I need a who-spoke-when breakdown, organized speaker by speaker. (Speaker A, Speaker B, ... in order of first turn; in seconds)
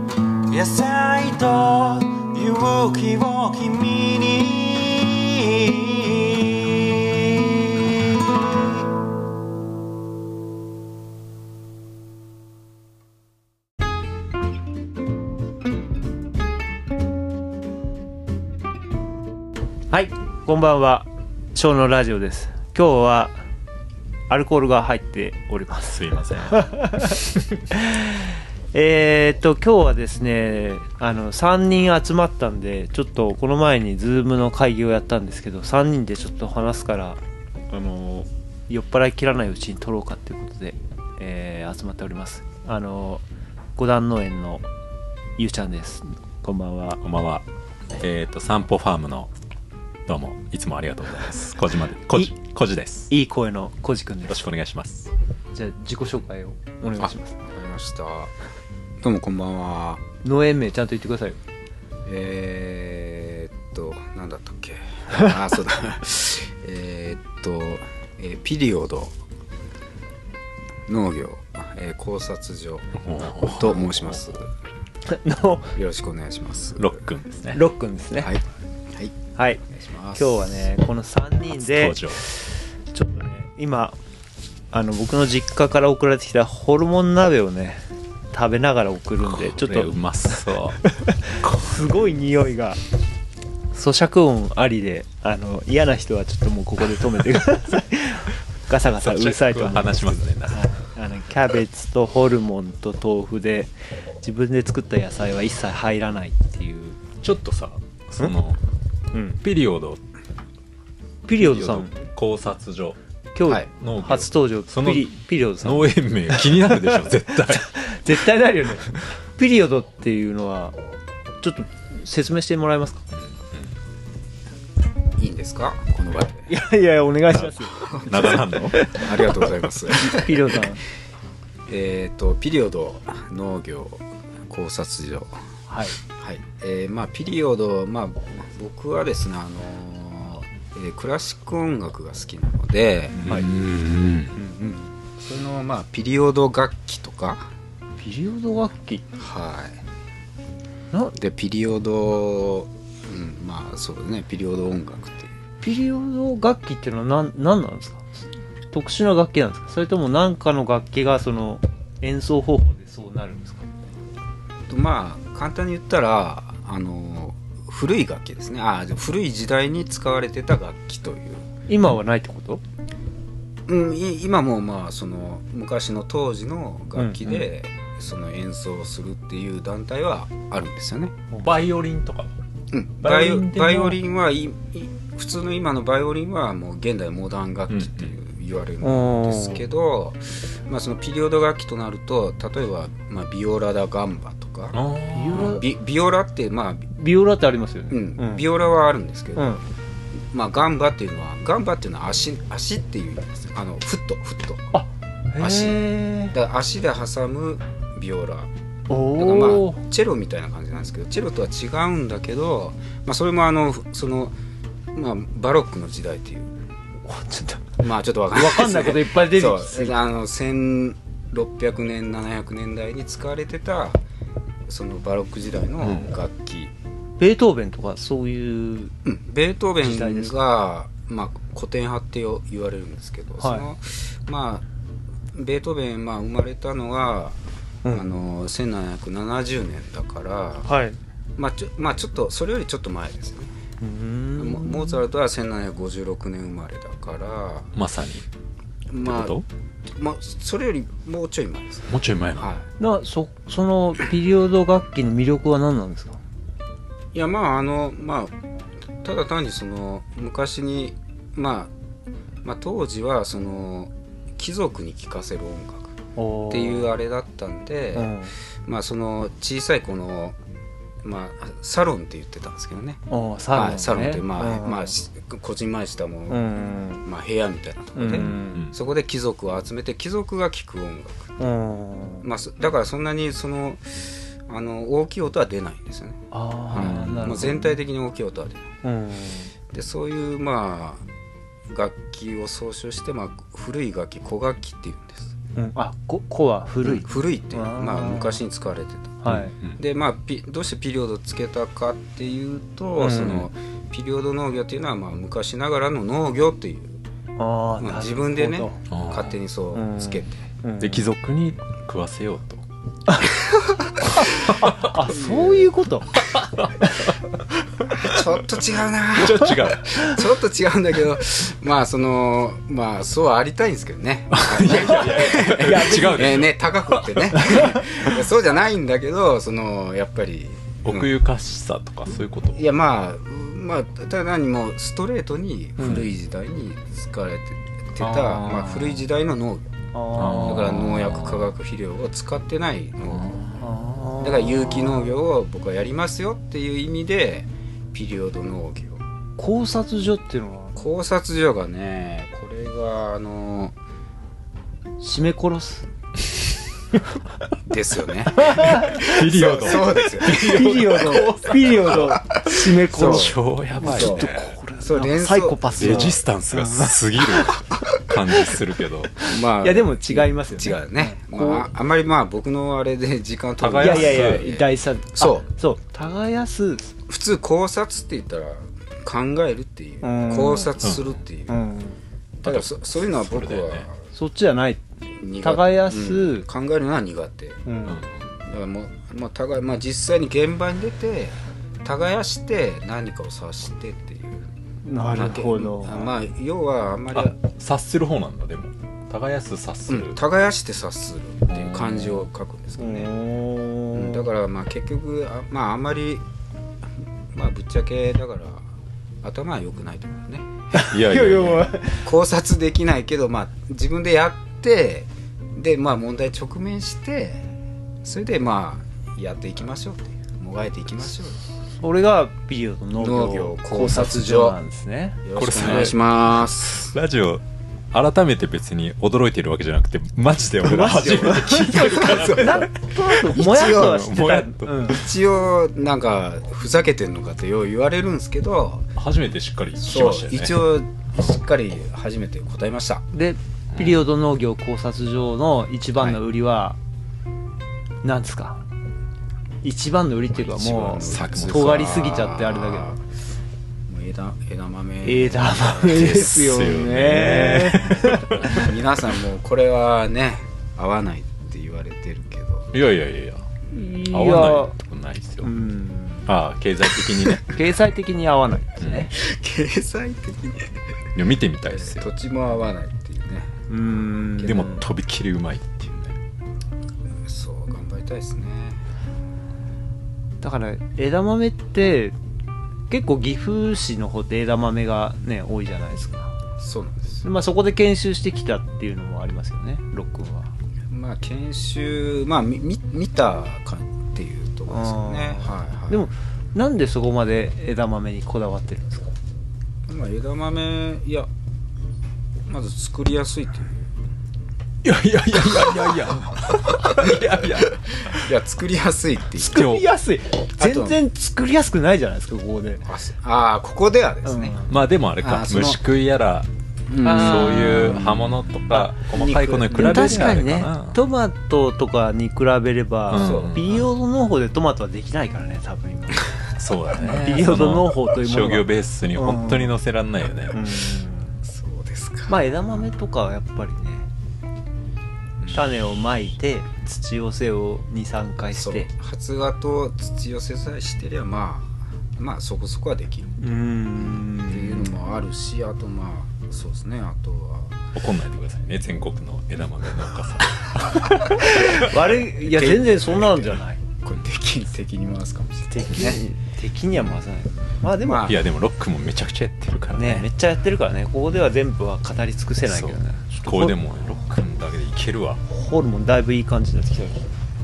Speaker A: 0.5-8.8
Speaker B: 19.9-23.4, 24.3-43.2, 43.8-44.6, 45.4-47.0, 53.1-54.5, 55.5-57.3, 60.2-61.4, 75.1-75.8, 77.5-78.3, 79.3-84.0, 84.7-92.8, 93.7-107.0, 109.1-109.4, 111.3-112.0, 113.3-120.8, 121.4-123.0, 126.5-130.8, 135.7-136.0, 144.3-144.9, 148.0-149.1, 155.6-158.1, 158.7-163.7, 171.7-172.6, 177.0-177.5, 181.3-181.6, 188.8-189.6, 195.1-195.7, 196.9-198.5, 199.4-199.6, 204.7-206.4, 208.9-209.8, 217.1-217.7, 218.3-220.0, 227.2-228.9, 229.8-230.4, 233.4-233.7, 237.8-238.1, 240.7-241.0, 243.8-245.0, 252.8-256.2, 266.2-266.9, 267.9-268.4, 273.1-274.9, 276.3-277.0, 278.0-278.6, 281.4-282.3, 286.3-287.8, 288.8-289.5, 295.6-298.4, 299.2-299.6, 303.0-303.4, 307.4-308.8, 309.7-311.1, 313.1-313.3, 314.0-316.2, 324.7-326.4, 327.3-327.7, 339.9-340.8, 343.6-345.0, 349.4-350.8, 355.0-355.9, 358.4-359.2, 360.2-367.6, 368.3-368.6, 369.2-371.7, 373.8-376.9, 380.0-380.8, 381.5-382.0, 384.1-386.5, 387.6-388.0, 394.8-396.1, 402.8-404.3, 410.7-412.1, 421.8-425.9, 430.6-435.1, 443.1-446.8, 448.0-448.6, 449.6-453.0, 455.0-458.7, 463.7-464.8, 465.4-466.3, 467.5-469.1, 473.7-474.8, 480.4-482.1, 482.9-486.3, 487.2-490.5, 494.7-499.1, 509.5-512.9, 514.2-514.7, 517.0-518.0, 519.7-526.3, 527.0-529.7, 530.5-531.4, 532.3-534.1, 535.5-538.9, 543.4-544.9, 550.9-553.8, 555.7-558.3, 559.9-563.8, 565.5-567.3
Speaker C: 25.9-27.5, 47.0-49.3, 50.1-53.1, 54.3-55.1, 73.0-74.3, 76.8-77.6, 81.5-82.2, 89.2-91.8, 99.0-100.8, 107.2-108.6, 109.4-110.0, 111.4-113.0, 113.7-117.9, 123.1-123.8, 127.4-128.8, 143.2-144.4, 181.4-182.3, 183.0-184.0, 187.7-188.1, 194.7-195.6, 225.8-226.1, 247.8-248.3, 249.0-249.5, 251.9-252.5, 278.1-278.8, 286.8-287.4, 299.3-299.8, 308.9-309.4, 310.8-312.6, 314.5-315.0, 316.1-317.3, 317.8-318.2, 319.1-320.2, 324.3-327.7, 330.9-332.6, 335.8-336.1, 338.0-339.0, 340.1-341.5, 343.1-343.6, 358.5-364.5, 365.7-369.2, 373.6-374.5, 380.8-381.2, 382.4-383.9, 387.9-388.3, 397.1-400.2, 401.5-402.3, 410.9-411.7, 425.4-434.9, 439.0-440.6, 443.7-444.1, 450.9-452.2, 455.8-458.6, 462.7-465.5, 466.3-467.6, 468.8-469.1, 471.1-472.1, 474.4-476.1, 504.8-508.2, 509.4-509.9, 514.7-516.5, 517.0-521.0, 523.1-523.9, 526.5-530.7, 548.0-551.7, 558.2-560.3, 562.6-565.4
Speaker D: 57.4-58.3, 59.0-60.0, 62.0-69.2, 70.9-74.5, 75.7-77.0, 78.2-79.2, 79.7-80.7, 125.2-126.5, 128.8-130.6, 131.7-135.4, 136.2-143.3, 145.2-147.5, 149.1-149.8, 151.2-155.3, 164.7-171.5, 173.7-181.2, 182.7-194.8, 195.3-196.9, 197.9-199.6, 200.2-204.7, 205.4-208.5, 209.2-214.4, 214.9-216.6, 217.8-224.0, 224.7-226.7, 229.0-234.7, 235.3-237.4, 237.9-240.7, 241.4-243.6, 244.4-247.7, 248.9-249.3, 249.9-252.7, 257.1-258.4, 259.0-261.7, 262.4-270.4, 271.0-273.0, 273.5-276.4, 277.0-281.3, 282.2-288.7, 289.7-291.1, 291.7-295.4, 296.8-299.2, 299.8-307.0, 307.8-310.5, 315.1-315.7, 317.9-331.1, 332.6-339.7, 340.4-343.4, 344.2-349.0, 350.8-353.8, 357.6-361.2, 361.9-362.4, 362.9-366.1, 369.2-375.5, 377.1-381.6, 382.4-384.0, 385.2-387.6, 388.4-394.5, 395.0-397.4, 399.9-403.1, 403.9-406.2, 407.3-410.7, 412.0-421.4, 423.0-424.6, 425.2-426.9, 431.2-432.7, 433.4-433.9, 434.9-438.9, 439.8-443.1, 450.3-453.0, 453.9-456.2, 458.4-462.7, 469.1-470.9, 471.7-473.6, 474.4-474.8, 477.1-478.8, 486.6-487.2, 490.9-496.1, 499.9-501.3, 502.5-503.9, 506.7-509.7, 510.6-511.0, 512.8-515.8, 516.9-520.4, 523.2-523.9, 531.4-532.8, 535.4-535.7, 538.5-543.5, 544.0-547.8, 552.4-556.2, 557.8-558.4